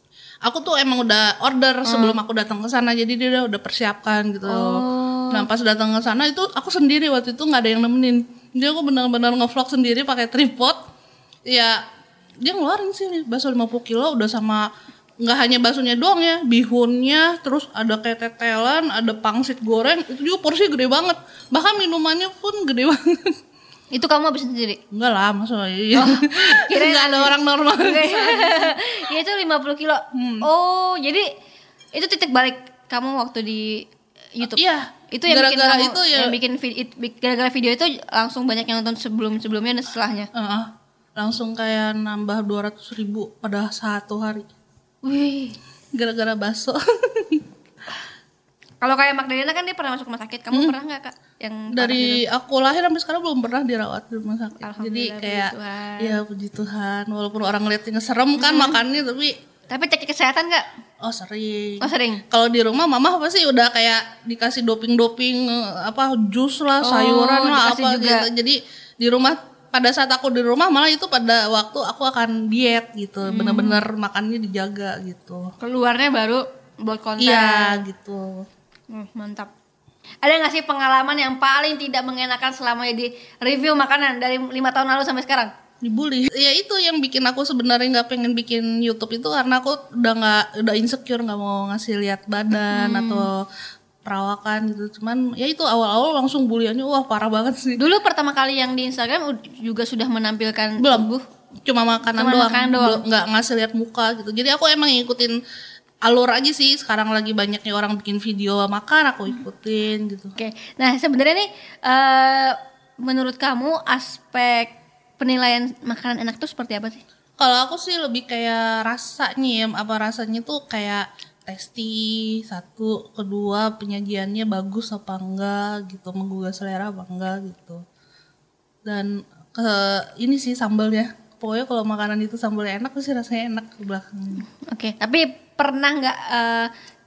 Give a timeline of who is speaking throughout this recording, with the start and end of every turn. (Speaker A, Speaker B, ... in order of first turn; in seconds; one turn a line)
Speaker A: 0.5-10.8
Speaker B: 1.9-2.2
Speaker B: 4.5-5.5
Speaker A: 11.5-11.8
Speaker A: 12.4-14.7
Speaker A: 15.2-23.3
Speaker B: 23.9-24.8
Speaker A: 24.9-28.9
Speaker B: 25.9-31.3
Speaker A: 30.1-30.5
Speaker B: 31.9-33.9
Speaker B: 34.4-40.3
Speaker A: 34.4-36.4
Speaker A: 40.3-44.5
Speaker B: 45.0-45.6
Speaker A: 45.9-47.5
Speaker B: 48.8-52.2
Speaker A: 51.7-59.3
Speaker B: 54.6-56.2
Speaker B: 58.4-58.8
Speaker B: 59.7-60.7
Speaker A: 61.0-75.5
Speaker B: 61.8-62.2
Speaker B: 66.8-68.3
Speaker B: 73.2-73.8
Speaker B: 75.6-77.8
Speaker A: 77.2-78.5
Speaker B: 78.9-79.5
Speaker B: 80.2-85.5
Speaker A: 85.8-93.5
Speaker B: 92.7-93.3
Speaker A: 94.0-97.8
Speaker B: 97.8-101.2
Speaker A: 100.8-101.1
Speaker A: 101.7-105.4
Speaker B: 102.1-103.0
Speaker A: 106.0-110.4
Speaker B: 110.4-117.0
Speaker A: 117.4-127.8
Speaker A: 128.8-134.5
Speaker B: 134.5-136.7